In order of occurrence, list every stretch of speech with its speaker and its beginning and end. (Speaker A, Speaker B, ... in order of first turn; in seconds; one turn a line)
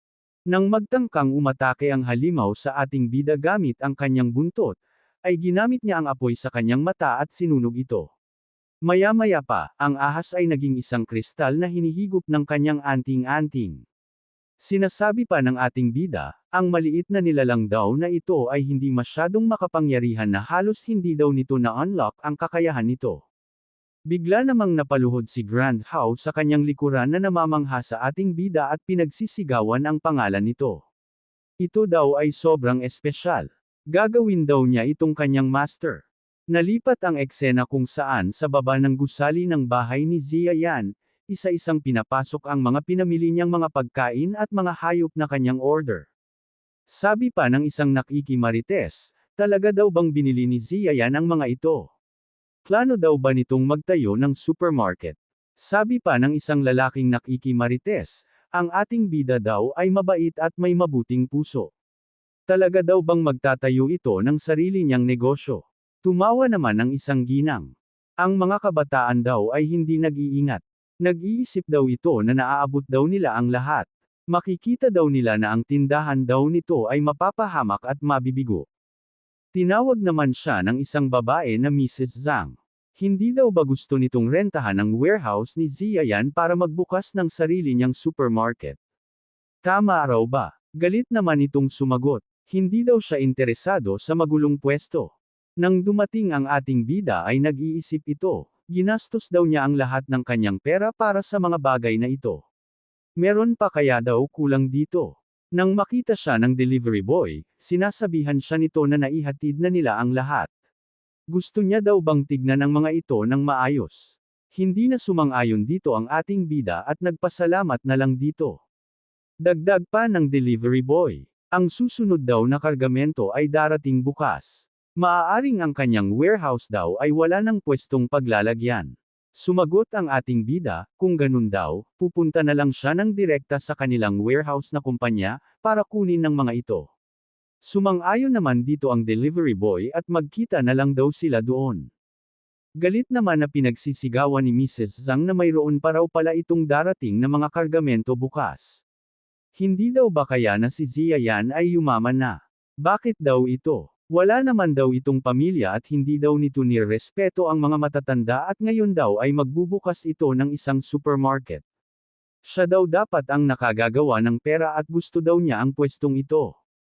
Speaker A: 0.5-8.1
Speaker A: 8.8-13.8
Speaker A: 14.6-23.2
Speaker A: 24.1-30.8
Speaker A: 31.6-46.1
Speaker A: 46.9-51.9
Speaker A: 52.6-61.7
Speaker A: 62.5-78.7
Speaker A: 79.5-88.8
Speaker A: 89.6-102.5
Speaker A: 103.2-110.5
Speaker A: 111.3-118.6
Speaker A: 119.4-136.9
Speaker A: 137.7-141.8
Speaker A: 142.8-148.8
Speaker A: 149.6-161.6
Speaker A: 162.4-166.6